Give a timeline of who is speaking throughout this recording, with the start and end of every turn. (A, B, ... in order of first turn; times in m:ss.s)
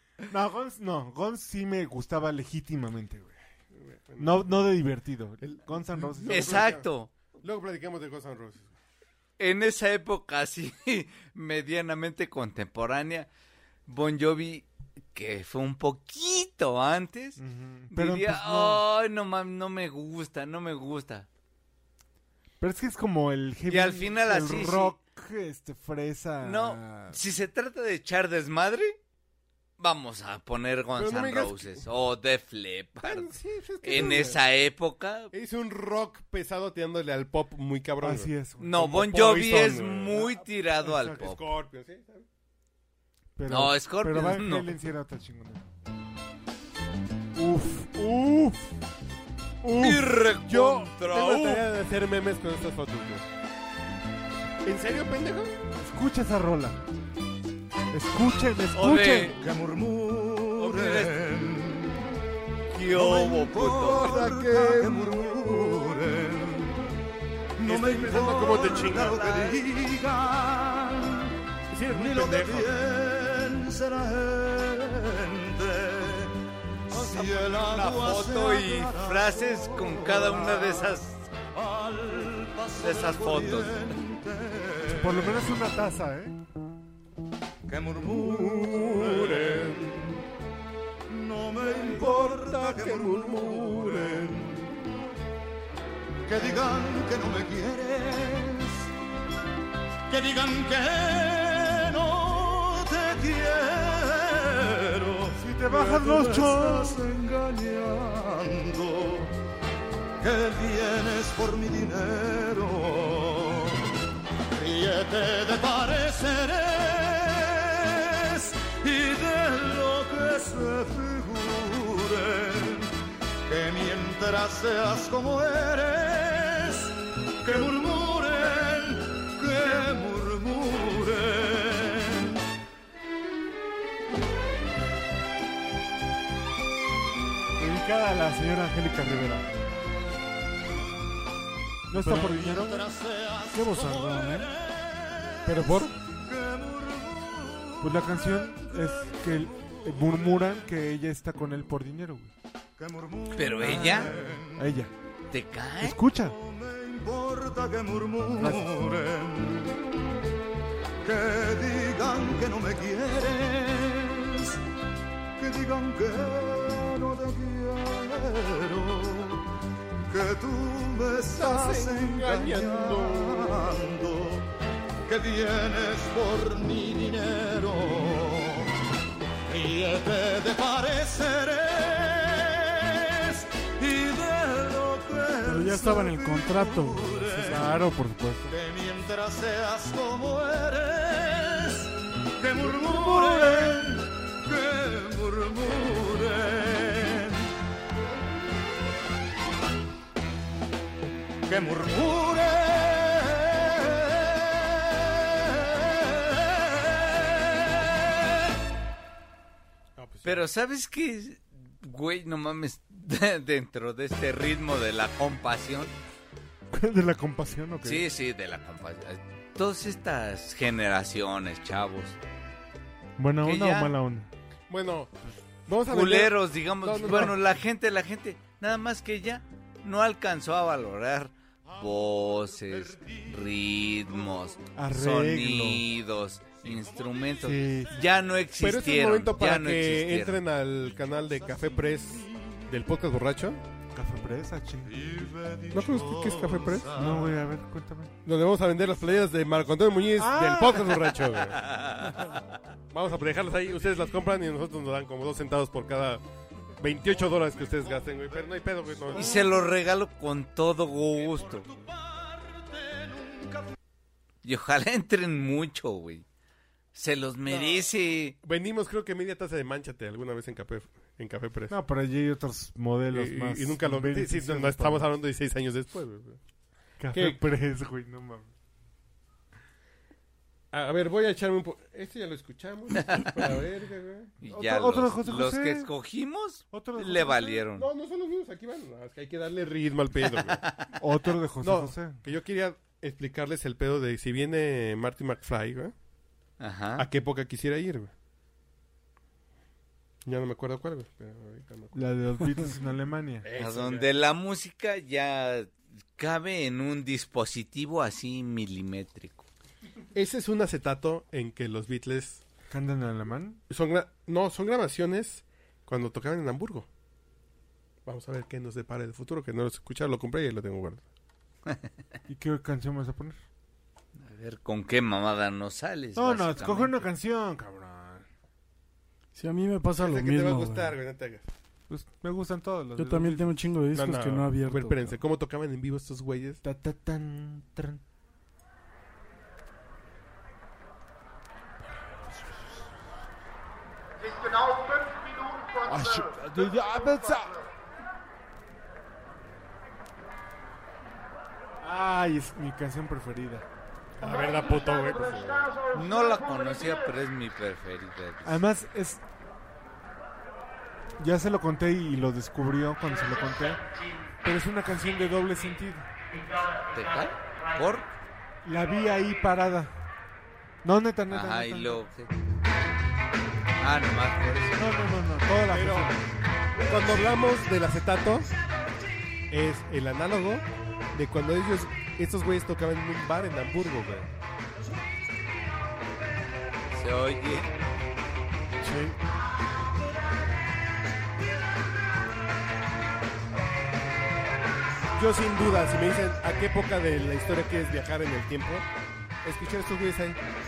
0:00.3-0:03.3 A
0:03.7-0:04.5 B
0:04.2-0:06.7 A
0:05.4-0:06.9 B
0:06.3-0:07.1 C
0:07.4-0:08.7 B
0:09.4-0:13.3 C
0:13.9-0:17.4 C
0:17.4-0:18.8 A
0:17.9-0:21.3 C
0:22.6-0:27.2 A
0:23.7-0:25.0 C
0:26.4-0:29.0 C
0:29.8-0:33.3 C
0:31.0-0:31.8 B
0:33.0-0:34.4 B
0:33.8-0:35.3 C
0:35.3-0:42.2 B
0:38.0-0:38.8 A
0:38.6-0:41.4 C
0:40.8-0:41.2 A
0:43.4-0:45.6 A
0:43.5-0:44.7 C
0:47.3-0:48.7 A
0:49.6-0:50.2 A
0:49.7-0:51.7 C
0:50.4-0:53.2 B
0:54.6-0:55.5 B
0:55.7-0:56.8 A
0:57.9-0:59.4 A
0:58.7-0:59.4 C
0:59.4-1:02.0 D
1:00.6-1:01.1 C
1:02.7-1:04.2 C
1:02.8-1:06.9 D
1:03.8-1:05.7 B
1:07.6-1:11.3 D
1:07.6-1:09.6 B
1:11.7-1:12.7 B
1:11.8-1:16.4 D
1:16.9-1:25.4 D
1:16.9-1:21.3 C
1:22.8-1:23.9 C
1:24.8-1:26.4 A
1:27.7-1:30.2 D
1:28.1-1:29.8 B
1:31.1-1:34.6 D
1:31.6-1:34.5 B
1:36.3-1:38.9 D
1:40.1-1:49.3 D
1:45.4-1:47.0 A
1:50.2-1:53.9 D
1:54.5-2:02.9 D
2:03.5-2:12.4 D
2:17.6-2:19.5 A
2:21.9-2:22.9 A
2:22.0-2:30.5 D
2:23.5-2:24.5 E
2:25.4-2:25.9 A
2:25.6-2:25.9 B
2:27.8-2:32.3 A
2:32.8-2:34.7 D
2:33.3-2:34.1 C
2:34.6-2:34.9 A
2:35.3-2:36.0 C
2:35.8-2:36.4 A
2:36.2-2:39.8 D
2:38.4-2:38.8 A
2:41.0-2:44.6 D
2:45.4-2:49.5 D
2:50.1-2:54.5 D
2:51.3-2:53.7 B
2:55.0-2:58.7 D
2:59.4-3:07.8 D
3:05.4-3:07.5 E
3:07.4-3:08.5 A
3:08.5-3:17.5 D
3:12.6-3:13.9 A
3:21.5-3:27.1 D
3:27.6-3:27.9 D
3:30.0-3:30.4 B
3:30.2-3:35.9 C
3:36.7-3:38.1 A
3:37.8-3:42.2 C
3:43.2-3:44.3 A
3:43.4-3:43.9 C
3:44.7-3:47.4 B
3:45.9-4:00.4 C
3:54.8-3:55.8 A
3:57.4-3:57.9 A
3:58.6-4:03.6 B
4:03.9-4:05.0 A
4:04.8-4:07.3 D
4:05.7-4:07.0 B
4:06.9-4:08.1 A
4:08.2-4:11.7 B
4:10.2-4:11.2 A
4:11.6-4:12.3 C
4:12.9-4:16.2 B
4:16.8-4:19.5 B
4:19.1-4:21.7 C
4:21.4-4:23.7 D
4:24.4-4:26.2 C
4:26.9-4:28.4 C
4:27.5-4:27.9 B
4:28.4-4:31.8 B
4:31.7-4:35.1 A
4:33.1-4:36.4 B
4:37.0-4:38.5 A
4:37.1-4:37.4 B
4:40.7-4:44.3 B
4:44.4-4:47.9 C
4:44.5-4:45.9 A
4:46.7-4:47.6 A
4:47.7-4:50.7 B
4:51.0-4:52.2 A
4:51.6-4:55.9 B
4:56.6-4:57.1 C
4:57.0-4:58.1 B
5:00.2-5:02.0 B
5:01.9-5:03.4 A
5:03.4-5:04.1 B
5:03.6-5:09.4 C
5:10.1-5:12.4 B
5:12.7-5:13.6 A
5:13.7-5:16.9 B
5:18.0-5:21.0 B
5:22.3-5:23.4 A
5:24.2-5:27.1 C
5:26.2-5:28.2 A
5:29.3-5:31.0 E
5:30.0-5:31.4 B
5:31.9-5:33.5 A
5:33.0-5:35.2 E
5:33.9-5:36.6 B
5:36.6-5:38.0 A
5:45.8-5:47.6 A
5:51.8-5:53.6 A
5:54.2-5:55.8 B
5:55.9-5:58.6 C
5:58.4-5:59.2 A
6:01.2-6:03.8 A
6:04.4-6:06.1 A
6:06.9-6:08.1 C
6:08.6-6:09.9 A
6:10.8-6:12.0 A
6:11.3-6:12.3 C
6:13.8-6:14.9 C
6:14.8-6:16.3 A
6:15.7-6:16.1 B
6:16.8-6:18.5 B
6:19.5-6:24.3 B
6:26.9-6:27.7 C
6:28.8-6:29.1 E
6:35.1-6:38.8 B
6:39.4-6:40.4 B